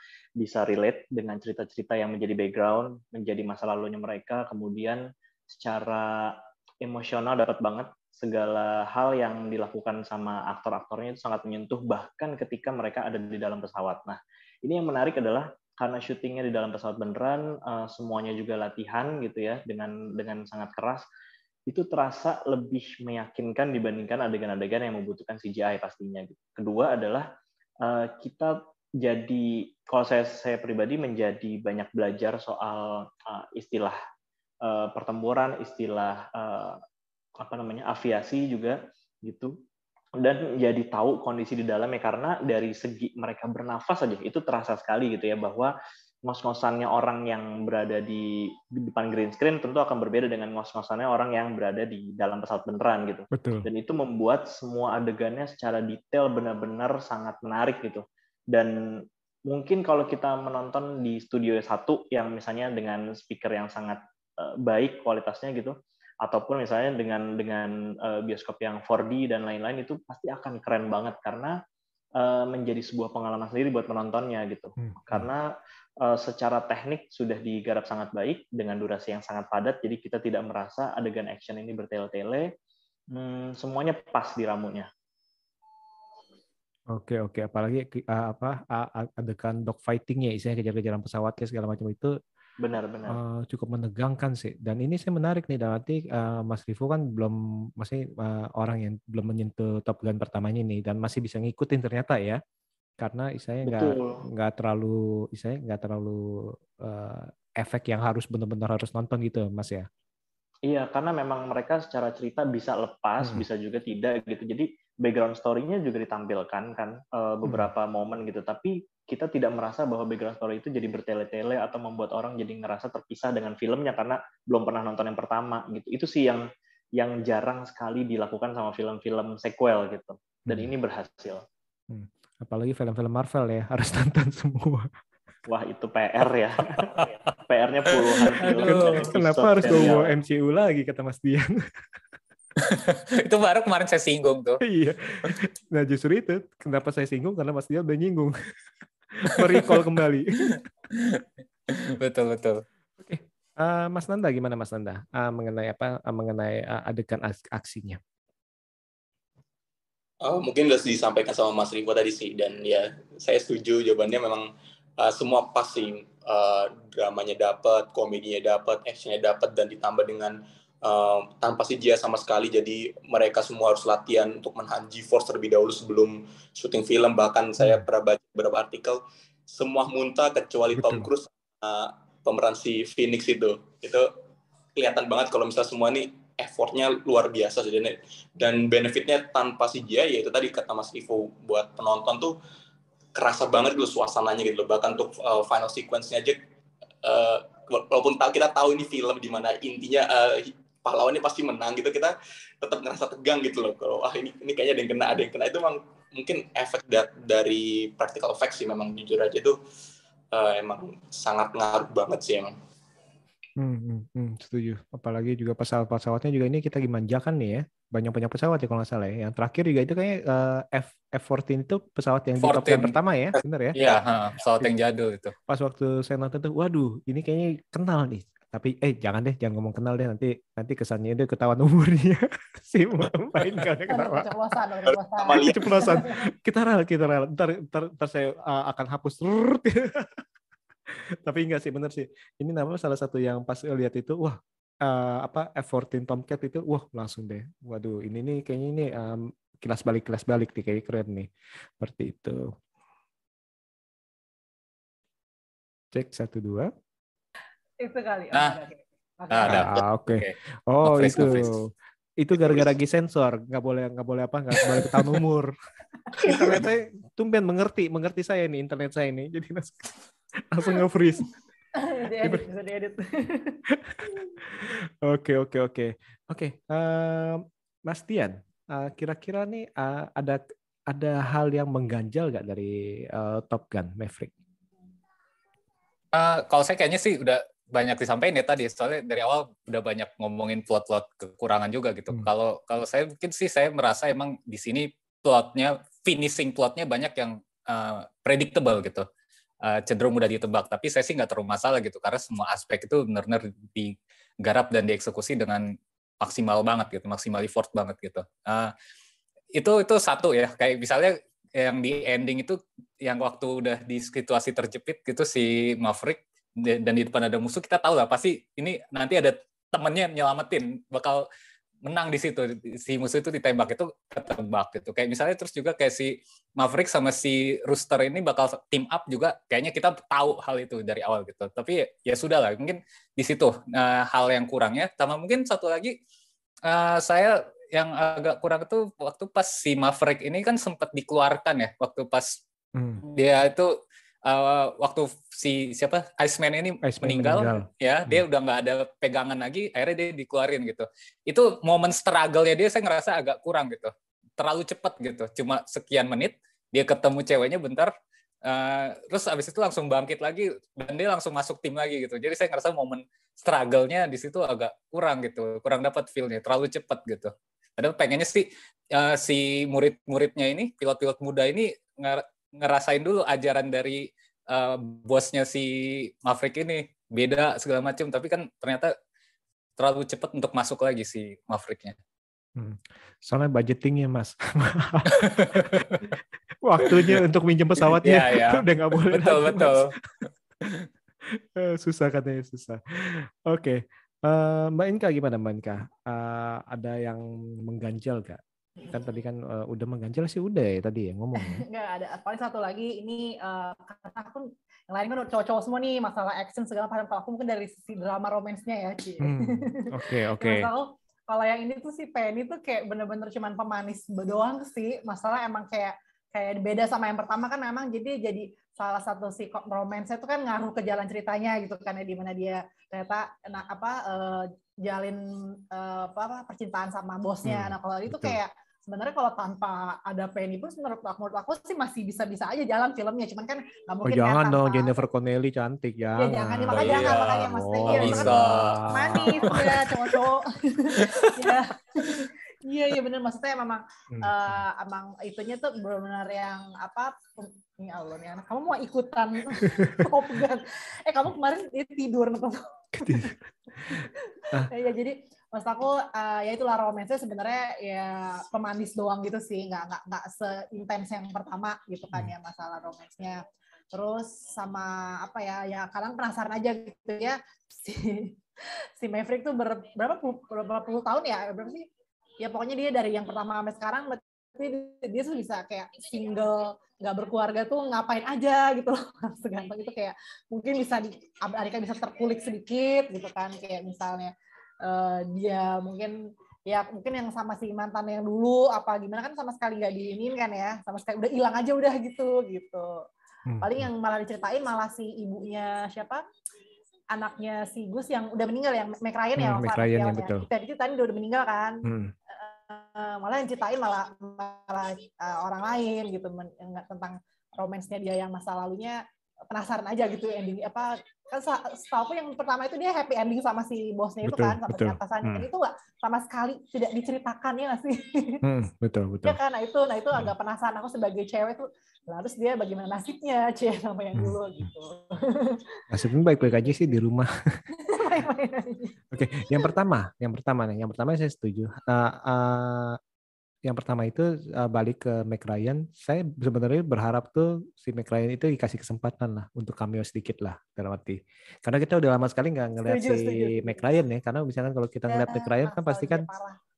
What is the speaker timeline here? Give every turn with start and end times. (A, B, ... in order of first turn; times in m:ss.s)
0:00.4-0:21.1 A
0:21.7-0:27.3 A
0:27.8-0:34.0 A
0:34.6-0:36.8 A
0:37.4-0:39.5 A
0:40.2-0:45.7 A
0:46.3-0:58.8 A
0:53.3-0:53.7 B
0:59.5-1:11.6 A
1:12.2-1:15.5 A
1:14.8-1:15.3 B
1:16.0-1:22.5 A
1:23.1-1:24.9 A
1:26.9-1:32.2 B
1:32.6-1:33.2 A
1:33.1-1:42.4 B
1:43.0-1:49.9 B
1:43.6-1:44.2 A
1:50.7-2:06.4 A
2:07.0-2:11.4 A
2:11.9-2:14.9 B
2:15.5-2:20.1 A
2:18.1-2:19.2 C
2:18.5-2:21.7 B
2:22.6-2:24.6 C
2:24.6-2:28.4 B
2:29.2-2:30.6 B
2:29.4-2:29.8 C
2:30.9-2:32.6 C
2:33.0-2:38.0 B
2:40.2-3:04.1 D
2:57.6-2:57.8 B
3:00.7-3:01.1 B
3:04.8-3:12.4 D
3:13.2-3:16.4 D
3:17.0-3:29.6 D
3:30.3-3:32.6 D
3:33.6-3:43.8 B
3:42.4-3:43.0 C
3:43.7-3:45.4 C
3:45.5-3:54.3 B
3:53.9-3:56.0 E
3:55.2-3:55.6 D
3:55.4-4:00.2 B
4:01.2-4:12.5 B
4:15.9-4:16.7 B
4:17.8-4:19.7 E
4:18.3-4:18.6 C
4:19.3-4:21.6 C
4:19.5-4:25.6 B
4:26.2-4:29.9 B
4:30.5-4:31.3 B
4:31.8-4:33.6 E
4:33.7-4:34.0 B
4:34.6-4:44.3 B
4:46.1-4:59.1 C
4:59.6-5:05.7 C
5:06.2-5:08.7 C
5:09.5-5:21.3 C
5:21.8-5:36.0 C
5:36.6-5:42.4 C
5:42.8-5:43.0 B
5:43.0-5:57.9 C
5:46.8-5:48.2 B
5:58.4-6:18.9 C
6:19.8-6:22.0 C
6:22.6-6:26.1 B
6:25.2-6:25.6 C
6:26.6-6:29.9 B
6:26.8-6:27.2 C
6:27.9-6:29.9 C
6:31.3-6:41.6 B
6:41.4-7:15.0 E
6:49.2-6:50.7 B
7:07.4-7:08.4 B
7:14.0-7:19.9 B
7:16.2-7:33.3 E
7:16.7-7:19.6 C
7:24.1-7:24.6 B
7:33.0-7:34.7 B
7:33.9-7:48.4 E
7:49.0-7:51.9 E
7:52.4-8:04.3 E
8:04.8-8:06.2 E
8:06.7-8:13.0 E
8:13.5-8:13.9 B
8:13.6-8:16.2 E
8:17.1-8:38.4 E
8:19.4-8:20.5 B
8:21.8-8:22.1 B
8:34.2-8:35.5 B
8:38.4-8:39.4 B
8:39.3-8:45.6 E
8:44.2-8:44.7 B
8:45.9-8:47.3 B
8:47.8-8:49.7 E
8:49.1-8:53.0 B
8:53.6-9:06.3 B
9:02.8-9:03.9 E
9:05.1-9:06.6 E